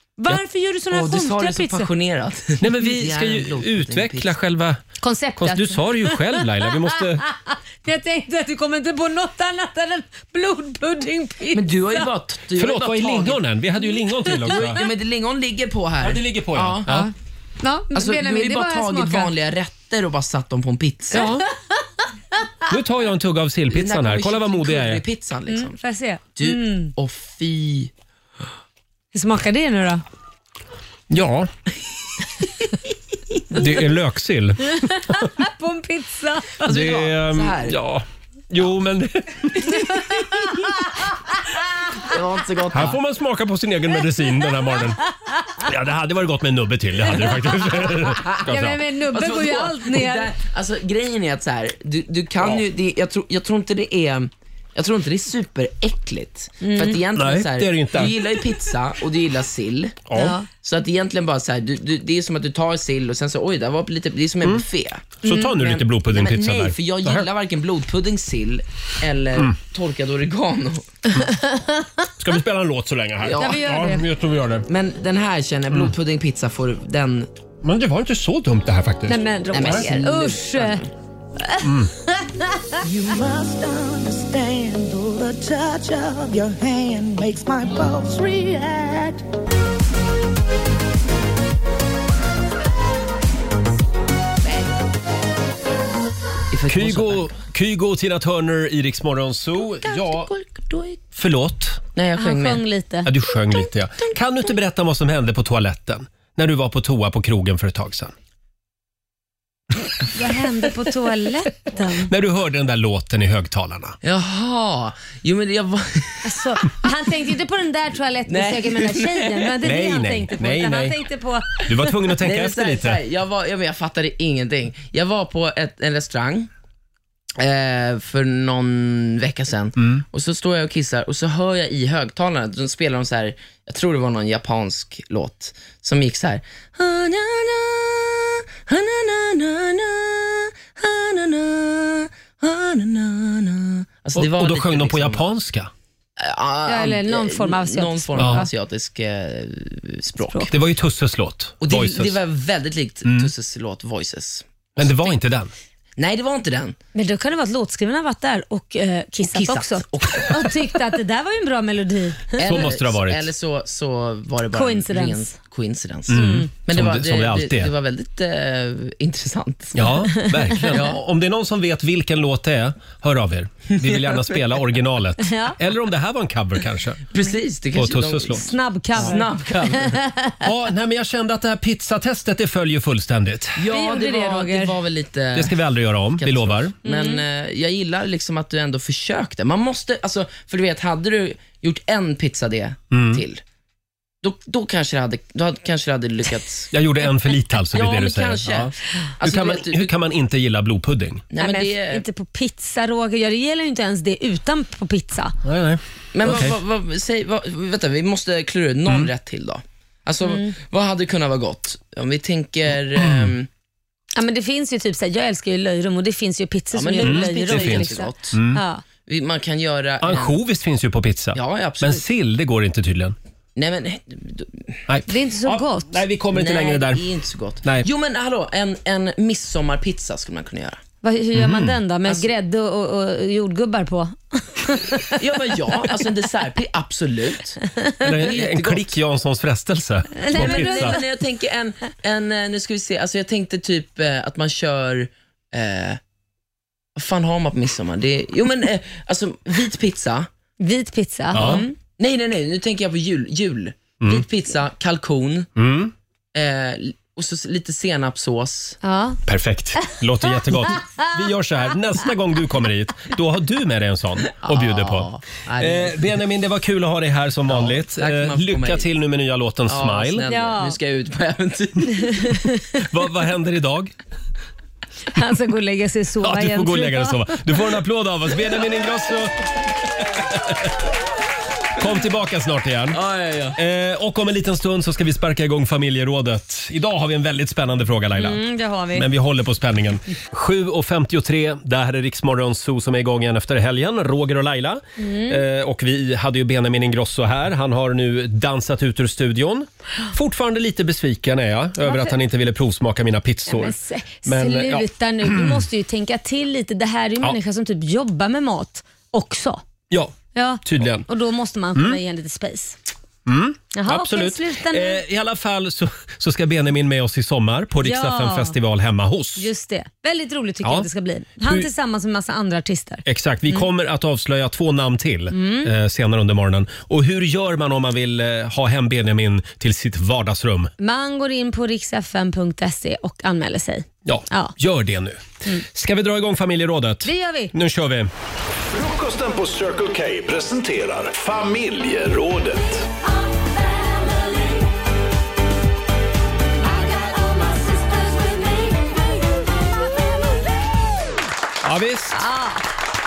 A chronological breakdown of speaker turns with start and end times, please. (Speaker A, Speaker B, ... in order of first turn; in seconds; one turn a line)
Speaker A: 0.2-1.9
Speaker B: 0.9-4.3
Speaker C: 2.6-4.8
Speaker A: 5.0-12.0
Speaker C: 5.4-7.2
Speaker B: 11.5-13.4
Speaker C: 12.6-14.8
Speaker A: 14.2-14.8
Speaker B: 14.5-16.9
Speaker C: 16.0-17.1
Speaker A: 16.9-19.3
Speaker B: 17.9-21.3
Speaker C: 21.1-21.4
Speaker A: 21.1-21.4
Speaker C: 22.7-25.0
Speaker B: 23.7-25.8
Speaker A: 25.5-26.9
Speaker B: 26.4-27.9
Speaker A: 29.1-30.0
Speaker C: 31.1-31.5
Speaker C: 33.5-35.2
Speaker A: 34.8-36.8
Speaker B: 36.6-37.8
Speaker C: 36.6-40.0
Speaker A: 39.7-40.8
Speaker B: 42.0-43.0
Speaker C: 42.7-45.0
Speaker C: 45.6-48.8
Speaker A: 48.5-50.3
Speaker B: 49.1-70.9
Speaker A: 56.6-57.0
Speaker C: 57.1-58.2
Speaker C: 60.1-60.4
Speaker A: 60.1-60.5
Speaker A: 65.2-65.6
Speaker C: 65.2-67.3
Speaker A: 71.2-71.9
Speaker C: 72.2-74.7
Speaker B: 73.2-73.6
Speaker A: 73.3-74.1
Speaker B: 74.7-77.3
Speaker C: 77.6-79.8
Speaker A: 79.1-80.8
Speaker B: 79.5-80.9
Speaker A: 81.4-82.7
Speaker C: 81.6-81.9
Speaker D: 82.8-89.2
Speaker B: 96.5-97.3
Speaker C: 96.7-100.3
Speaker B: 99.8-101.0
Speaker C: 101.1-101.8
Speaker B: 101.9-102.6
Speaker A: 102.2-103.1
Speaker C: 103.0-108.1
Speaker A: 110.1-112.1
Speaker C: 112.1-114.0
Speaker B: 114.0-116.4
Speaker A: 116.2-121.7
Speaker B: 118.3-119.5
Speaker C: 119.6-121.0
Speaker C: 121.6-123.0
Speaker B: 122.2-126.5
Speaker B: 127.4-145.2
Speaker C: 129.8-130.0
Speaker C: 144.1-145.7
Speaker B: 146.2-150.5
Speaker A: 146.7-148.5
Speaker C: 148.2-148.4
Speaker C: 150.5-152.2
Speaker B: 151.6-154.9
Speaker C: 153.0-153.3
Speaker C: 154.8-155.5
Speaker B: 156.0-156.8
Speaker A: 156.9-162.7
Speaker B: 159.2-160.6
Speaker B: 162.4-169.9
Speaker C: 162.4-163.3
Speaker A: 164.5-165.3
Speaker C: 166.1-167.7
Speaker A: 166.1-166.5
Speaker C: 169.7-177.0
Speaker A: 170.1-170.9
Speaker B: 173.8-174.4
Speaker A: 175.2-175.6
Speaker B: 177.1-180.0
Speaker C: 177.7-179.1
Speaker A: 178.3-180.4
Speaker C: 180.4-183.6
Speaker B: 183.6-185.5
Speaker A: 183.7-184.7
Speaker C: 185.3-186.7
Speaker B: 186.2-193.4
Speaker A: 186.8-187.2
Speaker C: 192.9-193.2
Speaker B: 194.2-196.7
Speaker C: 196.7-201.2
Speaker B: 197.7-199.9
Speaker B: 201.3-202.0
Speaker A: 201.3-205.3
Speaker C: 205.4-206.6
Speaker B: 206.1-213.5
Speaker A: 210.2-210.5
Speaker C: 212.9-213.3
Speaker A: 214.2-218.8
Speaker B: 216.7-218.4
Speaker C: 217.0-218.6
Speaker B: 219.0-220.3
Speaker C: 220.0-223.2
Speaker B: 221.3-222.0
Speaker B: 223.6-224.8
Speaker C: 224.9-227.0
Speaker A: 225.1-225.9
Speaker B: 226.3-230.8
Speaker A: 231.0-235.1
Speaker C: 231.3-231.8
Speaker B: 235.2-238.9
Speaker C: 238.0-241.0
Speaker A: 240.2-241.0
Speaker B: 240.3-246.0
Speaker B: 246.9-250.3
Speaker A: 250.6-251.7
Speaker C: 251.3-251.6
Speaker B: 251.3-255.5
Speaker C: 254.0-254.2
Speaker C: 255.6-255.9
Speaker B: 256.3-258.8
Speaker A: 258.8-259.2
Speaker C: 259.3-270.2
Speaker A: 260.6-261.1
Speaker B: 264.4-266.0
Speaker B: 267.5-268.9
Speaker B: 269.7-272.3
Speaker A: 270.3-270.8
Speaker A: 272.1-272.8
Speaker C: 272.9-273.9
Speaker A: 275.1-277.4
Speaker C: 276.2-280.7
Speaker C: 281.8-288.4
Speaker B: 283.0-283.5
Speaker A: 288.1-289.1
Speaker C: 288.9-305.6
Speaker A: 295.0-295.4
Speaker A: 301.8-302.1
Speaker A: 303.5-309.6
Speaker C: 309.9-311.1
Speaker A: 310.3-312.8
Speaker C: 313.2-319.5
Speaker A: 313.7-315.0
Speaker A: 317.8-318.5
Speaker A: 319.4-323.7
Speaker C: 320.6-320.9
Speaker C: 321.4-321.7
Speaker C: 323.1-330.7
Speaker A: 325.3-325.7
Speaker A: 330.8-334.5
Speaker C: 334.0-338.1
Speaker A: 337.0-337.5
Speaker E: 338.7-342.8
Speaker C: 351.6-352.2
Speaker A: 352.1-352.6